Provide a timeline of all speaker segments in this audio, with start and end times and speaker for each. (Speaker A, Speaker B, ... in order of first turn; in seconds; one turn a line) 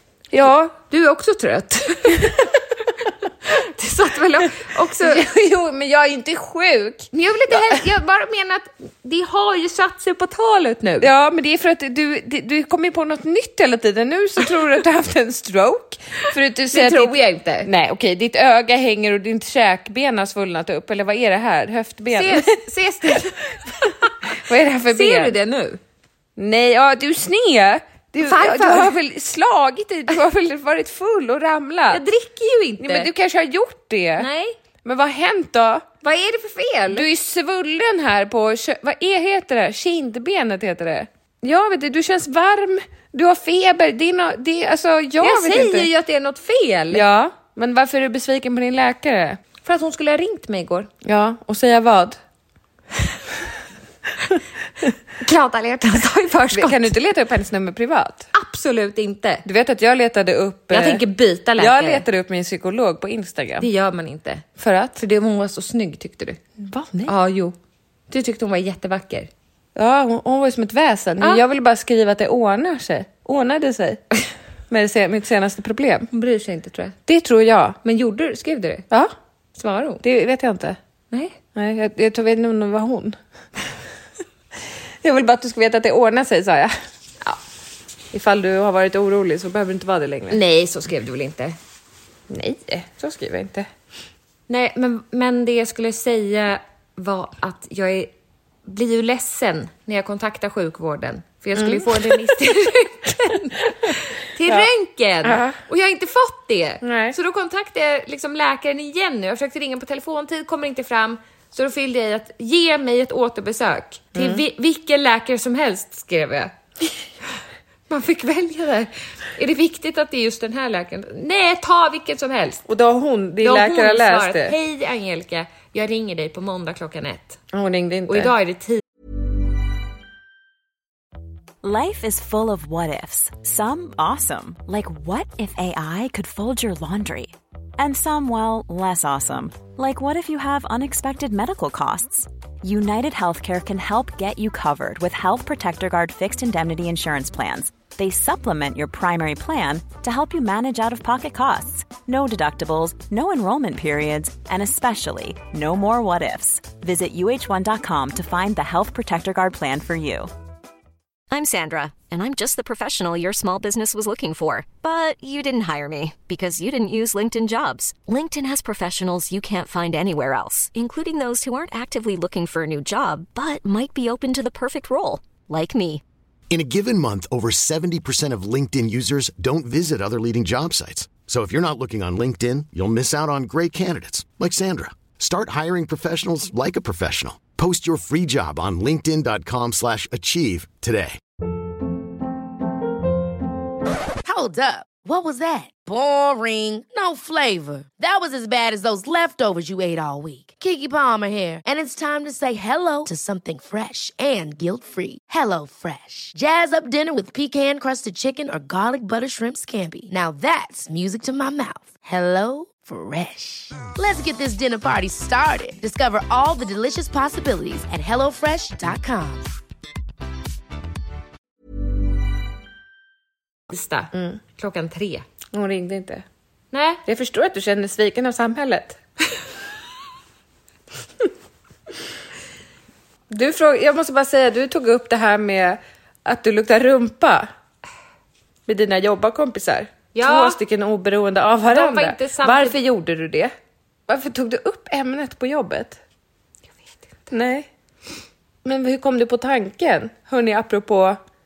Speaker A: 0.3-0.8
Speaker B: 0.8-5.2
Speaker A: 5.0-7.8
Speaker B: 7.1-11.1
Speaker A: 11.0-23.3
Speaker B: 16.7-17.7
Speaker B: 22.1-25.8
Speaker A: 24.2-25.3
Speaker A: 26.4-32.0
Speaker B: 28.2-28.9
Speaker B: 31.9-33.1
Speaker A: 32.8-34.3
Speaker B: 34.2-34.6
Speaker A: 34.8-35.8
Speaker B: 36.0-37.0
Speaker A: 36.9-45.9
Speaker B: 45.2-47.0
Speaker A: 46.9-49.4
Speaker B: 49.6-50.9
Speaker A: 51.0-52.2
Speaker B: 55.2-56.9
Speaker A: 56.5-58.3
Speaker B: 58.3-59.4
Speaker A: 59.4-61.0
Speaker B: 60.7-62.0
Speaker A: 61.6-63.7
Speaker B: 63.6-64.5
Speaker A: 64.6-65.0
Speaker B: 65.0-66.4
Speaker A: 66.6-67.1
Speaker B: 67.1-67.5
Speaker B: 68.1-69.3
Speaker A: 69.7-74.0
Speaker A: 74.7-76.1
Speaker B: 76.1-77.0
Speaker A: 77.0-77.8
Speaker B: 77.8-78.8
Speaker B: 79.5-80.0
Speaker A: 80.0-80.8
Speaker A: 81.5-83.2
Speaker A: 85.0-86.7
Speaker A: 88.1-90.4
Speaker B: 90.3-91.5
Speaker A: 92.3-93.7
Speaker B: 94.5-98.1
Speaker B: 98.7-116.5
Speaker A: 101.5-102.3
Speaker A: 105.2-105.6
Speaker A: 106.8-107.2
Speaker A: 114.1-114.4
Speaker B: 117.9-122.6
Speaker A: 122.7-124.5
Speaker B: 123.4-127.4
Speaker A: 127.5-128.3
Speaker B: 128.1-128.8
Speaker C: 131.6-160.3
Speaker D: 161.3-176.0
Speaker E: 176.5-191.2
Speaker F: 194.2-219.5
Speaker B: 223.7-225.2
Speaker A: 224.1-224.4
Speaker A: 225.5-226.2
Speaker B: 226.7-227.0
Speaker A: 227.1-229.0
Speaker A: 233.3-237.5
Speaker A: 238.7-243.5
Speaker B: 240.1-240.6
Speaker B: 241.7-242.8
Speaker A: 244.1-246.0
Speaker A: 247.3-247.7
Speaker A: 248.6-251.2